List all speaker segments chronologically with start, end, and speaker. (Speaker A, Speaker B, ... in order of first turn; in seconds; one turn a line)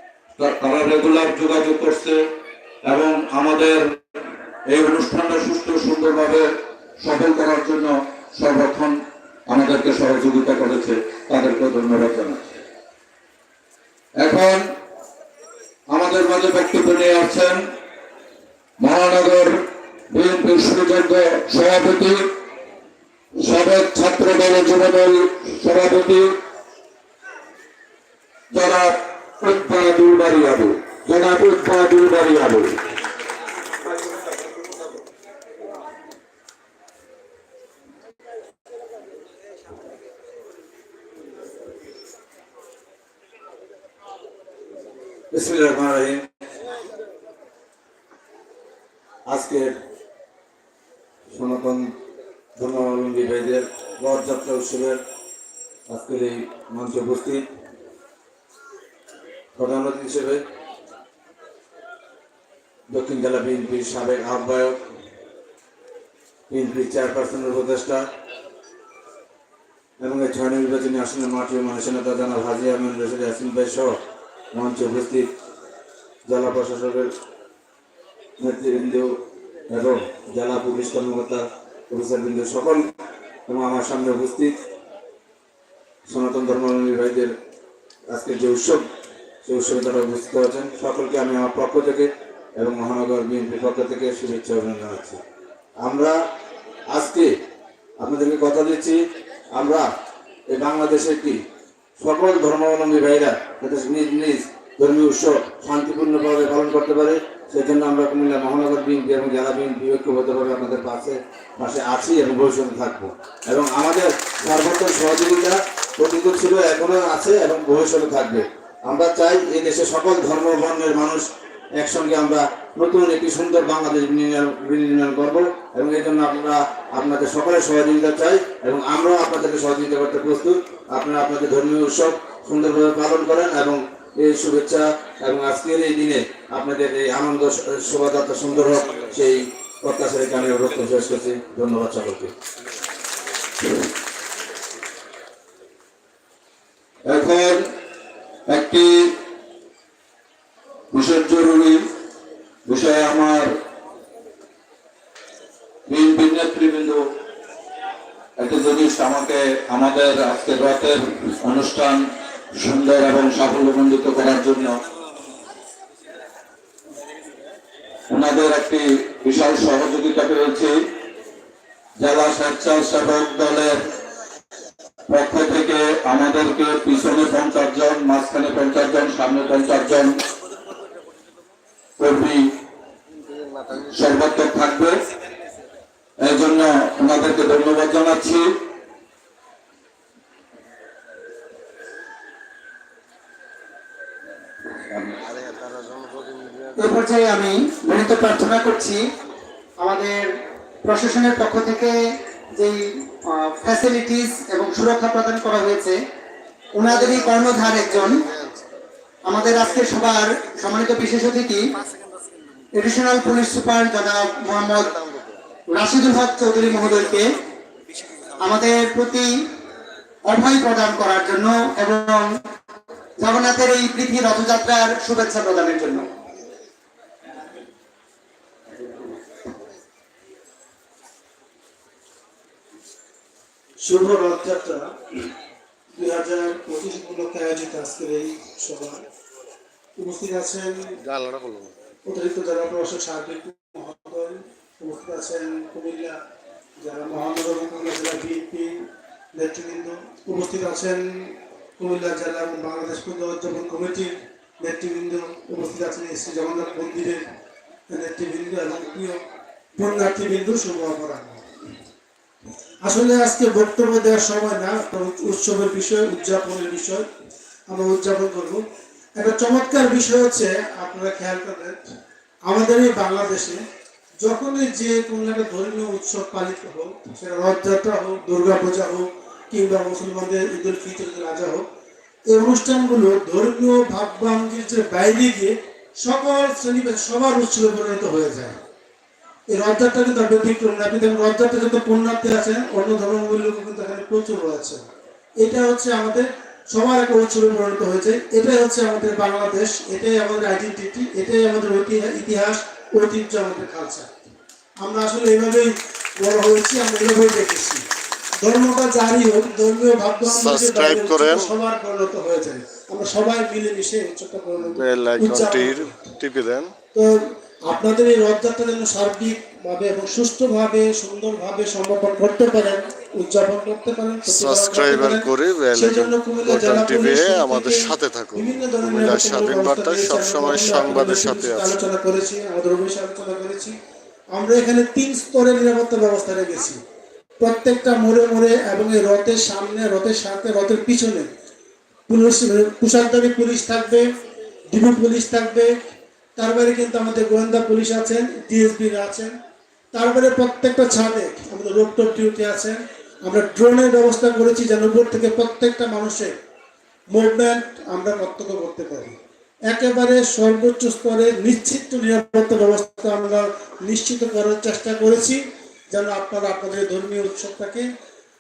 Speaker A: 0.4-2.2
Speaker A: 2.9-4.0
Speaker A: 4.7-6.5
Speaker A: 7.0-12.6
Speaker A: 14.2-14.6
Speaker A: 15.9-17.6
Speaker A: 18.8-22.2
Speaker A: 23.4-26.3
Speaker A: 28.5-32.8
Speaker B: 45.3-46.2
Speaker B: 49.3-49.7
Speaker B: 51.3-51.9
Speaker B: 52.6-55.0
Speaker B: 55.9-57.5
Speaker B: 59.6-60.4
Speaker B: 62.9-64.8
Speaker B: 66.5-68.0
Speaker B: 70.0-74.0
Speaker B: 74.5-75.3
Speaker B: 76.3-77.1
Speaker B: 78.4-79.1
Speaker B: 79.7-82.9
Speaker B: 83.5-84.6
Speaker B: 86.1-87.3
Speaker B: 88.1-88.8
Speaker B: 89.5-95.2
Speaker B: 95.8-96.2
Speaker B: 96.9-97.3
Speaker B: 98.0-99.0
Speaker B: 99.5-99.9
Speaker B: 100.5-101.4
Speaker B: 102.0-121.3
Speaker B: 121.8-142.3
Speaker A: 147.1-147.7
Speaker A: 148.5-149.2
Speaker A: 150.9-151.8
Speaker A: 152.7-153.5
Speaker A: 155.9-157.0
Speaker A: 158.4-162.0
Speaker A: 162.6-164.8
Speaker A: 168.1-170.8
Speaker A: 172.0-173.8
Speaker A: 175.1-180.1
Speaker A: 182.0-182.4
Speaker A: 183.9-185.0
Speaker A: 186.2-188.5
Speaker C: 195.3-196.6
Speaker D: 196.8-199.0
Speaker D: 199.8-200.3
Speaker D: 200.8-201.9
Speaker D: 202.6-202.8
Speaker D: 203.4-206.0
Speaker D: 206.8-208.3
Speaker C: 206.9-208.6
Speaker D: 209.3-211.6
Speaker D: 212.8-215.0
Speaker D: 215.7-217.3
Speaker D: 218.4-219.3
Speaker D: 220.2-222.3
Speaker D: 223.2-226.1
Speaker E: 233.8-234.9
Speaker E: 235.9-239.0
Speaker E: 240.0-241.0
Speaker C: 241.1-241.7
Speaker E: 242.1-246.2
Speaker E: 246.8-257.2
Speaker E: 257.9-259.2
Speaker E: 259.8-261.4
Speaker E: 262.8-267.1
Speaker E: 267.7-268.6
Speaker E: 269.1-271.8
Speaker E: 272.4-273.6
Speaker E: 274.2-281.6
Speaker E: 282.3-288.6
Speaker E: 289.5-294.8
Speaker E: 295.4-304.3
Speaker E: 304.8-307.8
Speaker E: 308.4-316.1
Speaker C: 310.2-311.5
Speaker C: 314.6-316.7
Speaker E: 317.7-333.7
Speaker C: 324.3-331.8
Speaker E: 334.3-336.8
Speaker E: 337.4-341.3
Speaker E: 342.1-344.1
Speaker E: 344.7-345.7
Speaker E: 346.4-349.3
Speaker E: 349.9-356.3
Speaker E: 357.1-359.2
Speaker E: 359.7-367.9